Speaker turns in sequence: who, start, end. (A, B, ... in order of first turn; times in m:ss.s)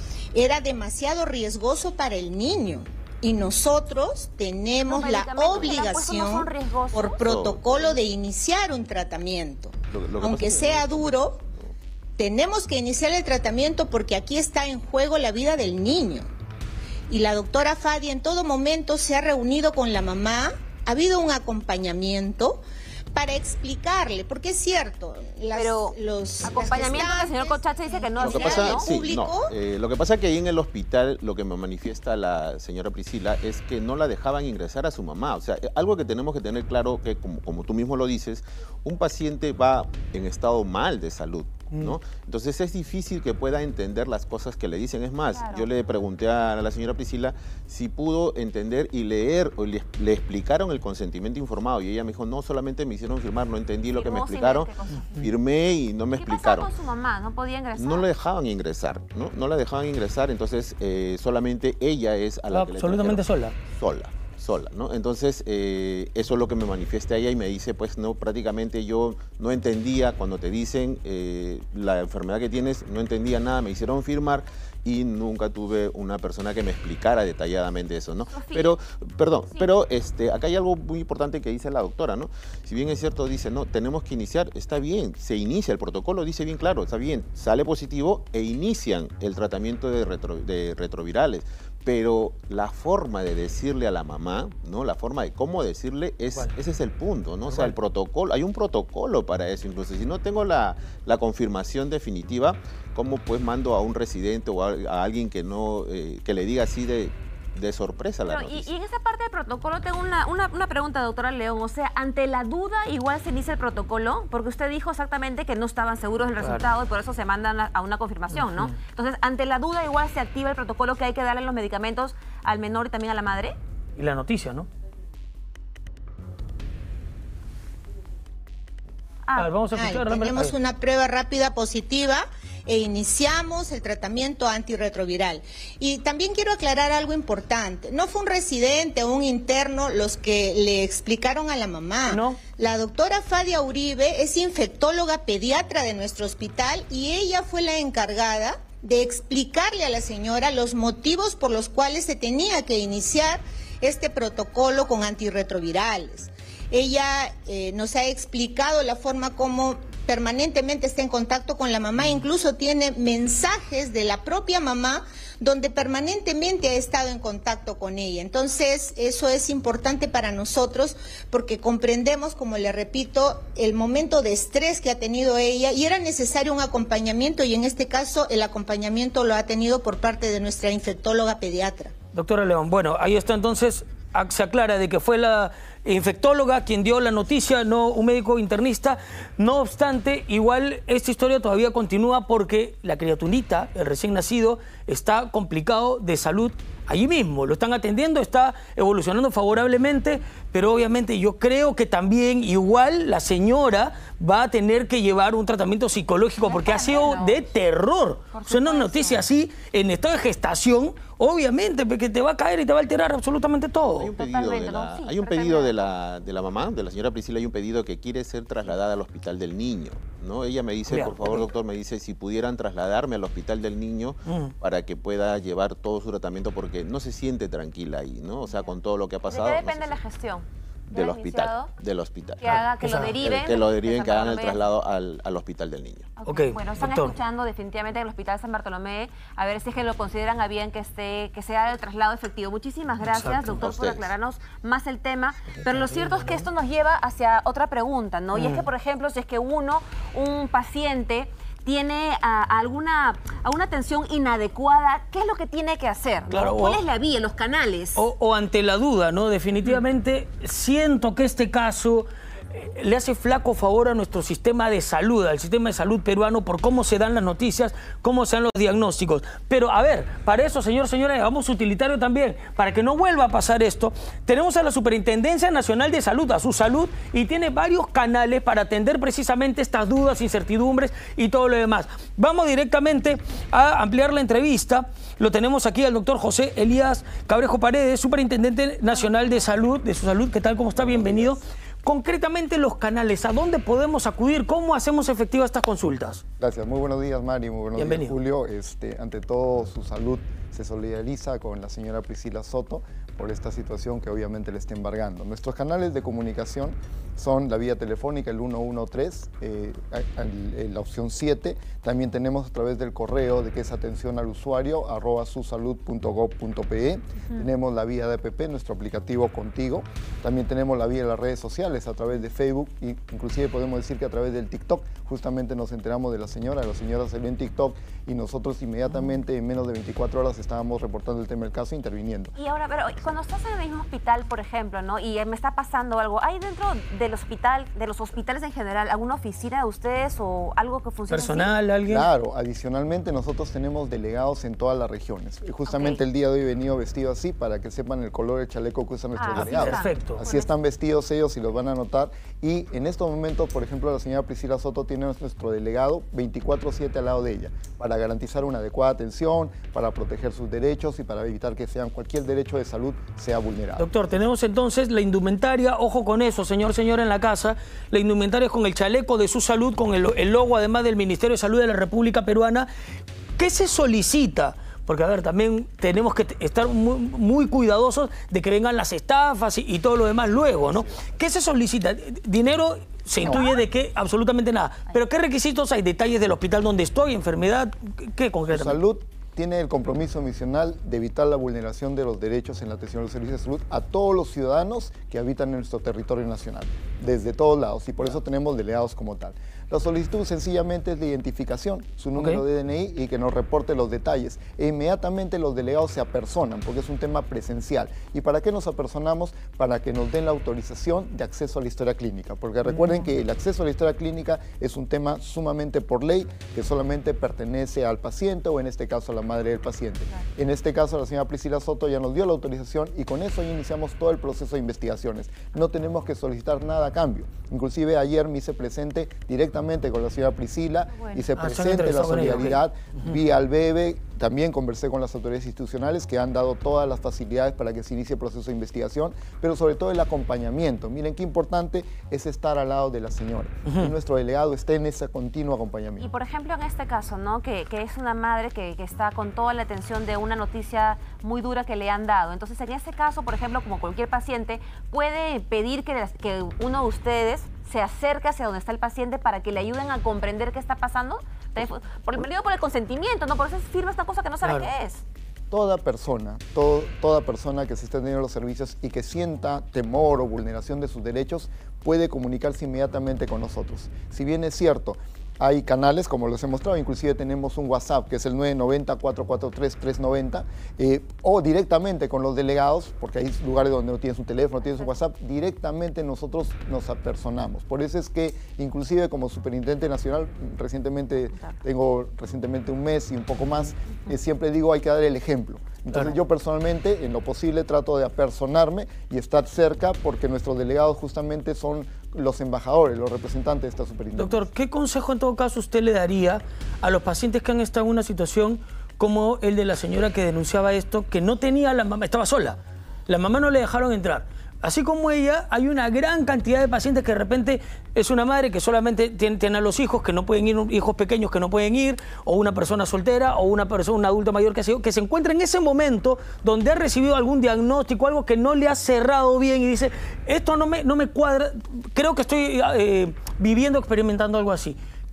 0:00.3-0:11.4 A
0:04.9-0:07.3 B
0:07.2-0:07.9 C
0:09.9-0:11.3 C
0:12.2-0:16.3 A
0:17.1-0:22.6 A
0:23.1-0:29.5 A
0:25.6-0:28.9 B
0:28.2-0:56.7 C
0:41.7-0:42.0 D
0:45.3-0:45.7 B
0:53.9-0:55.1 B
0:56.2-0:58.1 B
0:57.7-1:48.7 C
1:02.5-1:03.6 D
1:18.3-1:18.8 B
1:37.4-1:37.8 D
1:48.3-2:03.6 B
1:56.4-1:56.7 D
1:58.3-1:58.8 D
2:04.0-2:04.7 D
2:09.4-2:10.5 D
2:09.7-3:01.9 A
2:22.1-2:22.4 D
3:02.1-3:34.1 D
3:26.4-3:27.4 B
3:28.3-3:29.2 B
3:34.0-3:50.0 C
3:34.2-3:35.8 B
3:40.9-3:41.5 D
3:44.3-3:44.5 D
3:49.3-3:51.7 B
3:50.9-3:52.4 C
3:52.4-3:54.6 B
3:52.4-3:53.1 D
3:53.2-3:56.1 C
3:56.2-4:18.0 B
3:56.3-3:57.2 D
4:03.0-4:03.6 D
4:03.6-4:04.1 C
4:05.5-4:06.5 D
4:08.3-4:08.7 D
4:16.3-4:16.8 D
4:18.0-4:56.2 D
4:48.9-4:49.4 B
4:50.8-4:51.4 E
4:56.4-5:32.3 E
4:57.8-4:58.2 D
5:28.9-5:29.2 D
5:32.4-5:41.5 B
5:41.1-5:42.1 D
5:41.9-6:03.9 E
5:45.6-5:46.0 B
5:49.2-5:50.5 B
5:49.3-5:50.2 D
6:03.8-6:12.7 D
6:13.4-6:28.8 D
6:28.5-7:26.1 E
6:42.2-6:42.4 D
6:52.7-6:53.1 D
7:10.9-7:11.2 B
7:11.4-7:13.2 D
7:23.7-7:24.0 D
7:26.0-7:45.0 B
7:44.4-7:44.7 D
7:45.5-8:24.4 E
8:04.6-8:04.9 B
8:24.2-8:32.6 D
8:33.1-8:54.8 D